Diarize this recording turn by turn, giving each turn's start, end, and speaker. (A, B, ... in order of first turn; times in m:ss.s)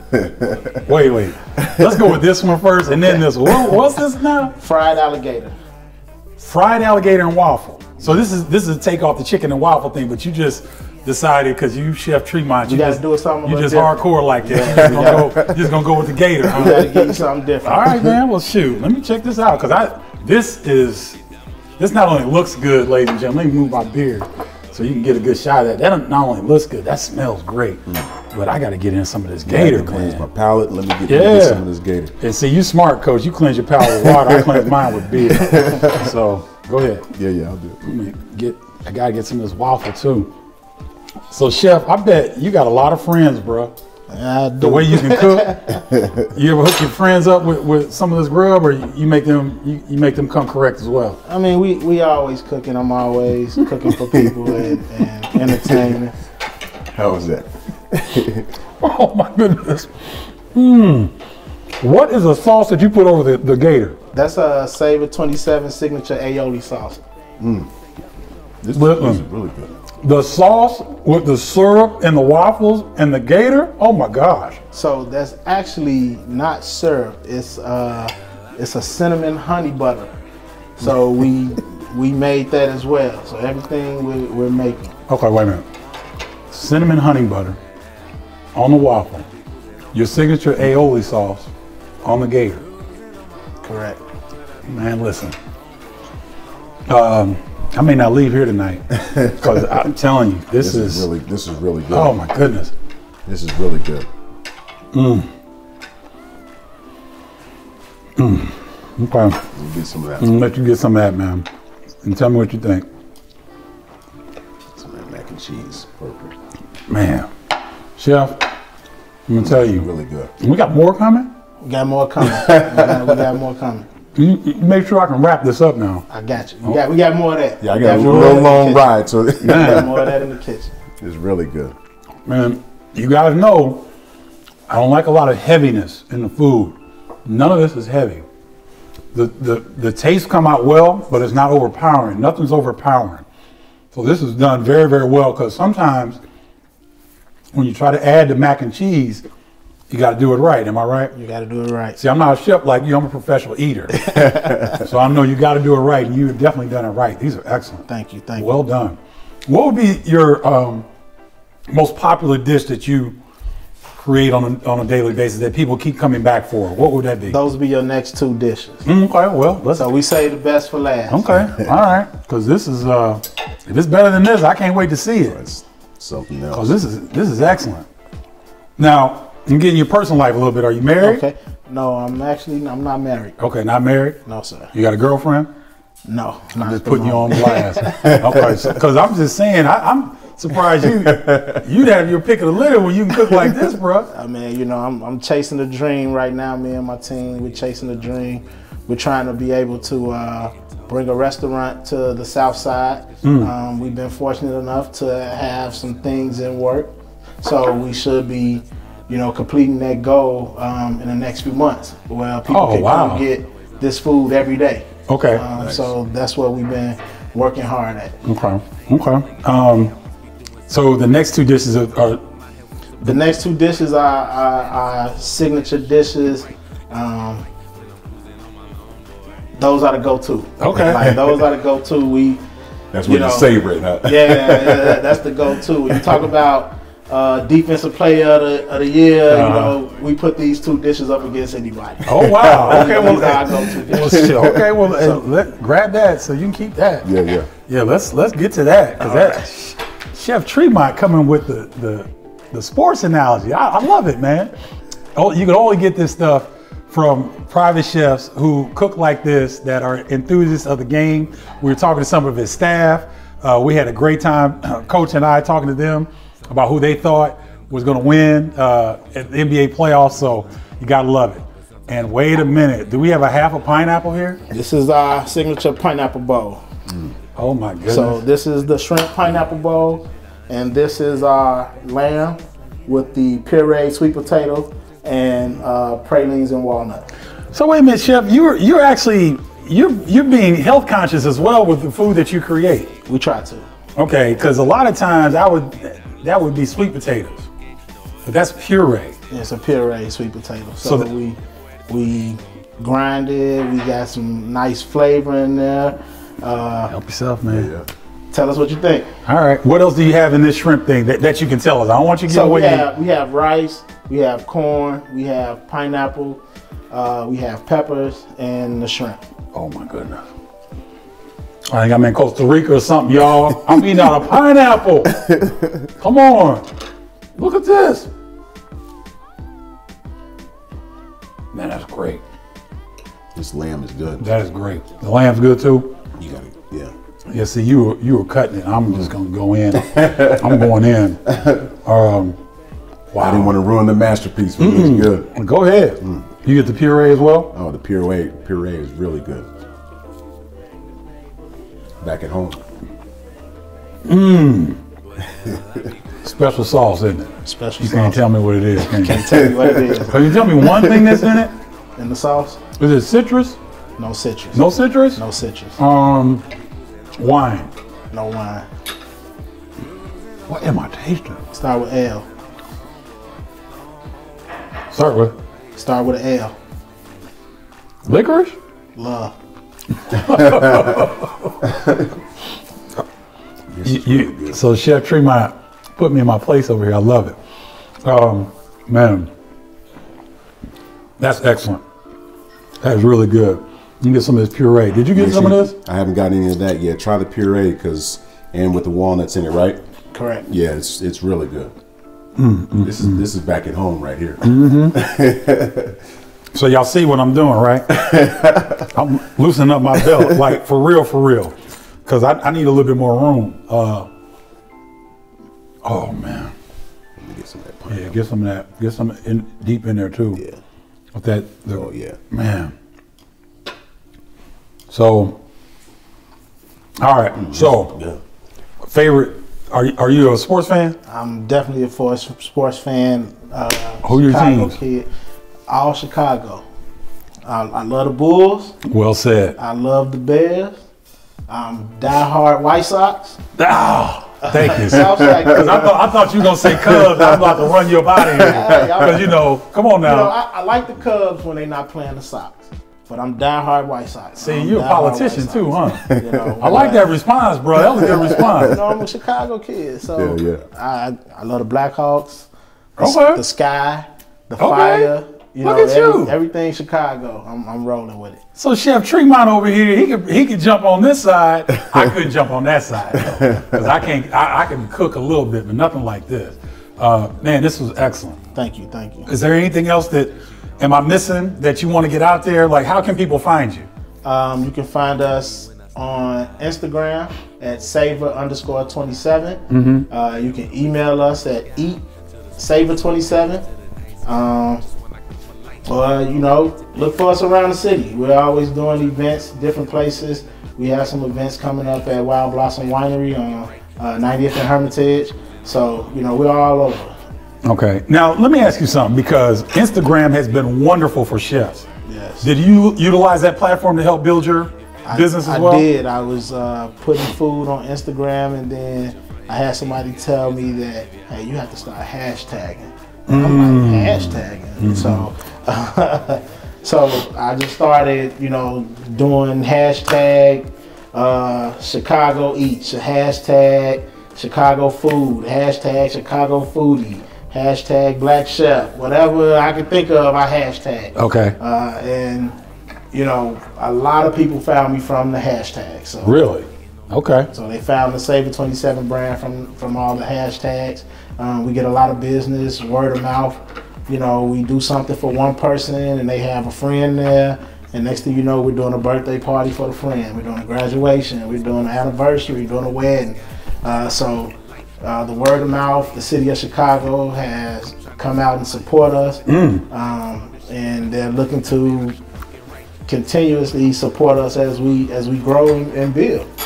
0:00.1-0:00.7 A
0:00.8-0:04.5 B
0:01.6-0:02.1 A
0:04.6-0:05.5 C
0:06.4-0:17.1 B
0:12.6-0:15.4 C
0:14.6-0:15.7 A
0:16.5-0:18.0 C
0:17.6-0:21.2 B
0:21.8-0:30.2 B
0:29.4-0:32.1 A
0:31.1-0:31.6 B
0:32.2-0:37.0 B
0:33.8-0:36.1 A
0:37.1-0:37.8 A
0:37.8-0:40.3 B
0:41.3-0:43.7 B
0:44.1-0:45.6 C
0:44.6-0:51.2 B
0:45.7-0:46.3 A
0:51.2-0:56.1 C
0:54.1-0:54.8 A
0:55.4-0:55.9 A
0:56.9-0:58.5 A
0:58.8-1:01.1 B
1:01.8-1:04.0 B
1:04.1-1:07.0 C
1:07.4-1:07.7 A
1:08.6-1:09.7 A
1:08.7-1:09.2 B
1:10.0-1:14.6 B
1:14.7-1:20.1 C
1:20.8-1:24.9 C
1:25.1-1:25.6 B
1:26.5-1:27.6 B
1:28.5-1:29.3 B
1:29.9-1:31.5 B
1:32.0-1:32.6 B
1:33.6-1:34.0 C
1:34.7-1:35.4 B
1:36.9-1:41.0 B
1:40.6-1:42.2 A
1:41.9-1:42.7 B
1:43.2-1:44.1 A
1:44.9-1:45.3 B
1:48.2-1:49.4 B
1:49.5-1:50.4 A
1:50.2-1:51.5 B
1:52.0-1:52.8 B
1:54.7-1:56.3 A
1:56.9-1:57.3 B
1:58.0-1:58.4 B
1:59.3-1:59.9 B
1:59.4-2:00.3 A
2:00.4-2:01.3 B
2:01.6-2:03.9 C
2:02.4-2:02.9 A
2:04.1-2:06.0 B
2:06.1-2:10.7 C
2:07.6-2:10.2 A
2:07.9-2:08.4 B
2:09.4-2:09.9 B
2:11.0-2:11.7 A
2:12.2-2:13.9 B
2:14.7-2:18.2 B
2:19.1-2:23.2 B
2:23.9-2:26.2 B
2:27.5-2:29.2 B
2:29.9-2:31.1 B
2:31.1-2:32.0 C
2:32.0-2:37.8 B
2:34.2-2:34.6 A
2:37.9-2:38.5 C
2:38.4-2:40.9 B
2:41.7-2:43.2 B
2:43.9-2:47.4 B
2:47.3-2:48.8 C
2:48.8-2:49.9 B
2:49.8-2:51.3 C
2:51.1-2:55.4 B
2:55.3-2:56.7 A
2:56.5-2:57.8 B
2:58.8-3:01.2 B
3:01.0-3:03.4 C
3:03.4-3:04.2 B
3:04.2-3:04.7 C
3:04.7-3:05.5 B
3:06.0-3:07.9 C
3:06.6-3:14.1 B
3:08.0-3:08.7 A
3:10.8-3:11.6 A
3:13.2-3:13.6 A
3:14.1-3:38.2 C
3:23.2-3:23.5 B
3:32.5-3:33.2 B
3:35.1-3:35.4 B
3:35.5-3:35.9 A
3:38.2-3:39.9 B
3:40.7-3:42.2 B
3:43.0-3:47.4 C
3:49.5-3:52.4 C
3:50.6-3:51.3 B
3:52.9-3:55.0 A
3:53.0-4:04.3 C
3:59.3-3:59.8 B
4:02.0-4:07.1 B
4:02.1-4:03.3 A
4:03.9-4:04.7 A
4:04.9-4:05.2 C
4:07.0-4:07.5 A
4:07.6-4:14.5 B
4:15.1-4:34.4 B
4:34.5-4:36.6 C
4:37.4-4:38.2 B
4:37.9-4:47.1 C
4:47.5-4:52.9 B
4:53.0-4:53.7 C
4:54.0-4:57.5 B
4:58.2-4:59.2 B
4:59.3-5:06.9 C
5:00.8-5:01.1 B
5:06.9-5:07.7 B
5:07.4-5:07.9 A
5:08.3-5:09.1 C
5:09.2-5:12.8 B
5:12.3-5:19.2 C
5:19.5-5:20.3 B
5:21.7-5:25.2 B
5:25.2-5:25.8 A
5:26.0-5:26.6 B
5:27.3-5:28.1 B
5:31.5-5:32.2 B
5:33.3-5:34.3 A
5:34.2-5:35.9 B
5:36.2-5:36.9 A
5:37.3-5:41.3 B
5:39.9-5:40.5 A
5:41.3-5:41.6 A
5:41.8-5:42.4 B
5:43.1-5:43.5 B
5:43.2-5:45.3 A
5:44.6-5:47.5 B
5:46.0-5:46.2 A
5:47.5-5:49.5 A
5:52.0-5:52.6 A
5:54.0-5:54.8 B
5:55.2-5:55.7 A
5:56.2-5:59.4 B
5:57.4-5:58.2 C
5:58.9-6:00.4 C
5:59.4-6:00.0 A
6:00.0-6:01.5 B
6:00.6-6:01.3 A
6:02.0-6:02.6 C
6:02.8-6:03.6 B
6:04.0-6:05.8 C
6:04.5-6:05.2 B
6:05.8-6:06.4 B
6:07.2-6:07.7 B
6:08.1-6:08.6 C
6:10.5-6:11.4 B
6:11.5-6:12.3 C
6:14.9-6:15.4 B
6:15.7-6:16.5 C
6:18.0-6:18.6 B
6:18.9-6:19.3 C
6:20.1-6:21.6 B
6:23.7-6:24.6 A
6:23.8-6:27.4 B
6:28.0-6:29.3 B
6:31.2-6:31.8 B
6:32.8-6:35.7 B
6:35.1-6:39.8 A
6:40.1-6:40.4 C
6:40.4-6:41.7 A
6:42.4-6:43.2 B
6:42.8-6:46.0 A
6:44.4-6:45.0 B
6:46.5-6:48.1 B
6:48.0-6:48.8 A
6:48.8-6:54.1 B
6:55.8-6:56.5 B
6:57.2-6:58.2 A
6:57.9-7:00.4 B
7:01.1-7:02.7 B
7:01.7-7:02.2 A
7:04.9-7:05.4 B
7:07.0-7:08.0 B
7:07.4-7:08.2 A
7:08.8-7:11.0 B
7:11.0-7:15.1 C
7:14.0-7:14.7 B
7:15.7-7:16.6 C
7:17.4-7:18.8 C
7:18.8-7:19.6 B
7:19.6-7:20.8 C
7:21.5-7:23.4 C
7:23.6-7:30.3 B
7:24.4-7:26.0 C
7:26.6-7:27.6 A
7:28.2-7:28.6 A
7:28.4-7:29.4 C
7:30.0-7:37.1 C
7:34.4-7:36.1 B
7:36.0-7:36.5 A
7:36.6-7:38.8 B
7:38.0-7:38.6 A
7:38.6-7:48.4 C
7:40.2-7:40.6 A
7:43.0-7:43.4 B
7:44.6-7:45.1 B
7:45.6-7:46.3 B
7:48.6-7:58.4 B
7:53.2-7:53.8 A
7:58.5-7:59.3 C
7:59.3-8:03.9 B
8:04.2-8:12.0 C
8:09.7-8:10.1 B
8:12.6-8:13.6 C
8:14.2-8:14.8 C
8:15.8-8:27.2 C
8:27.6-8:31.8 B
8:32.0-8:32.5 C
8:32.4-8:35.8 B
8:35.0-9:02.6 C
8:43.3-8:45.3 B
9:01.2-9:01.6 B
9:03.1-9:06.3 C
9:06.2-9:07.5 B
9:07.5-9:32.2 C
9:29.5-9:29.8 B
9:33.0-9:36.5 C